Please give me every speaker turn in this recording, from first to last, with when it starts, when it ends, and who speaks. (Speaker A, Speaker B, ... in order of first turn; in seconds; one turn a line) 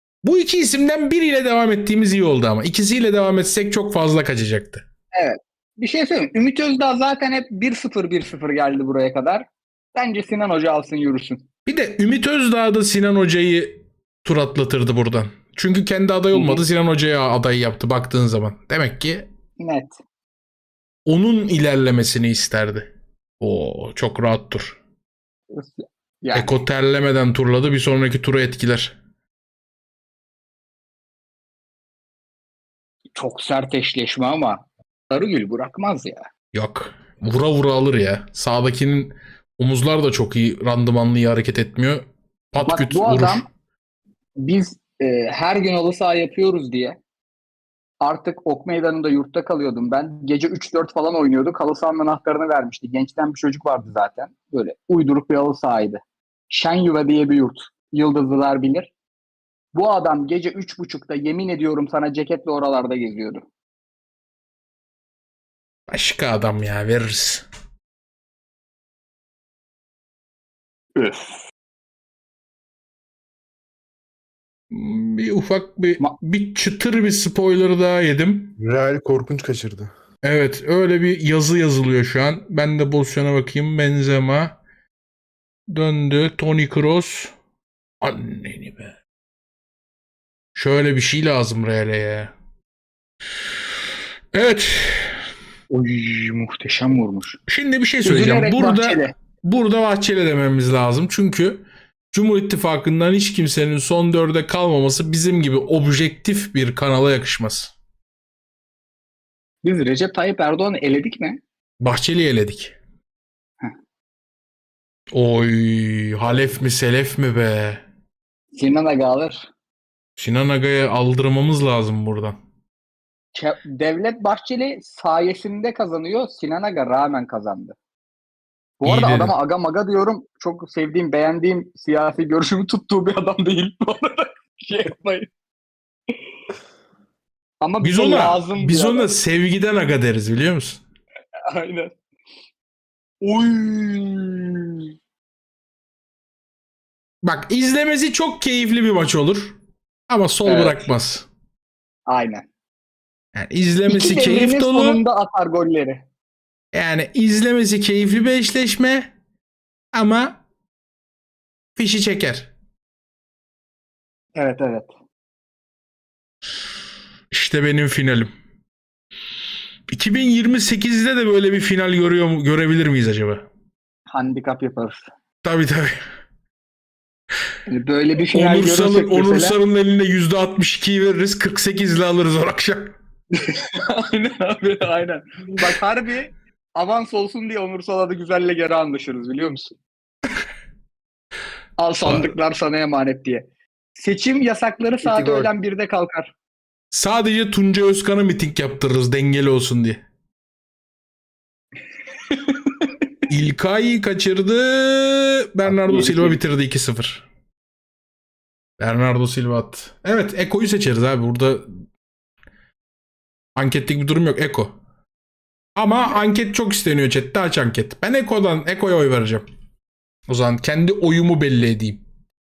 Speaker A: 0.2-4.8
Speaker B: 5.1-11.4
Speaker A: 11.7-19.3
Speaker B: 16.3-16.6
Speaker B: 19.6-19.9
Speaker A: 21.1-24.8
Speaker B: 25.5-26.6
Speaker A: 26.3-28.9
Speaker B: 33.1-36.3
Speaker A: 36.5-43.4
Speaker B: 42.6-43.5
Speaker B: 44.4-47.0
Speaker B: 48.0-58.9
Speaker B: 59.7-63.4
Speaker A: 65.9-67.4
Speaker B: 71.0-71.5
Speaker A: 74.7-78.5
Speaker C: 78.6-79.9
Speaker A: 80.2-84.5
Speaker A: 85.7-87.3
Speaker A: 88.0-88.9
Speaker A: 90.5-92.3
Speaker A: 94.3-95.2
Speaker B: 95.7-97.4
Speaker A: 97.5-107.7
Speaker B: 98.0-99.1
Speaker B: 109.6-111.4
Speaker A: 111.8-112.8
Speaker A: 115.1-117.8
Speaker B: 118.5-119.5
Speaker A: 120.2-122.4
Speaker B: 123.3-127.8
Speaker B: 128.8-135.3
Speaker A: 128.8-129.3
Speaker B: 137.6-139.1
Speaker A: 137.8-140.8
Speaker B: 141.5-141.9
Speaker B: 143.2-144.9
Speaker A: 147.2-149.6
Speaker A: 150.1-151.3
Speaker B: 150.4-150.8
Speaker B: 152.1-152.4
Speaker A: 153.3-155.0
Speaker B: 153.9-156.0
Speaker A: 156.7-159.1
Speaker A: 159.9-160.4
Speaker A: 161.8-162.5
Speaker B: 164.3-164.9
Speaker A: 167.3-168.3
Speaker A: 169.9-173.4
Speaker B: 174.1-175.0
Speaker A: 175.4-176.0
Speaker B: 177.7-179.6
Speaker A: 178.3-182.9
Speaker B: 183.3-189.8
Speaker B: 191.8-196.3
Speaker C: 195.0-195.5
Speaker A: 196.9-200.0
Speaker B: 202.3-203.0
Speaker A: 203.3-207.2
Speaker C: 205.7-206.3
Speaker A: 208.8-211.7
Speaker A: 213.6-214.8
Speaker A: 215.8-219.4
Speaker A: 220.3-222.0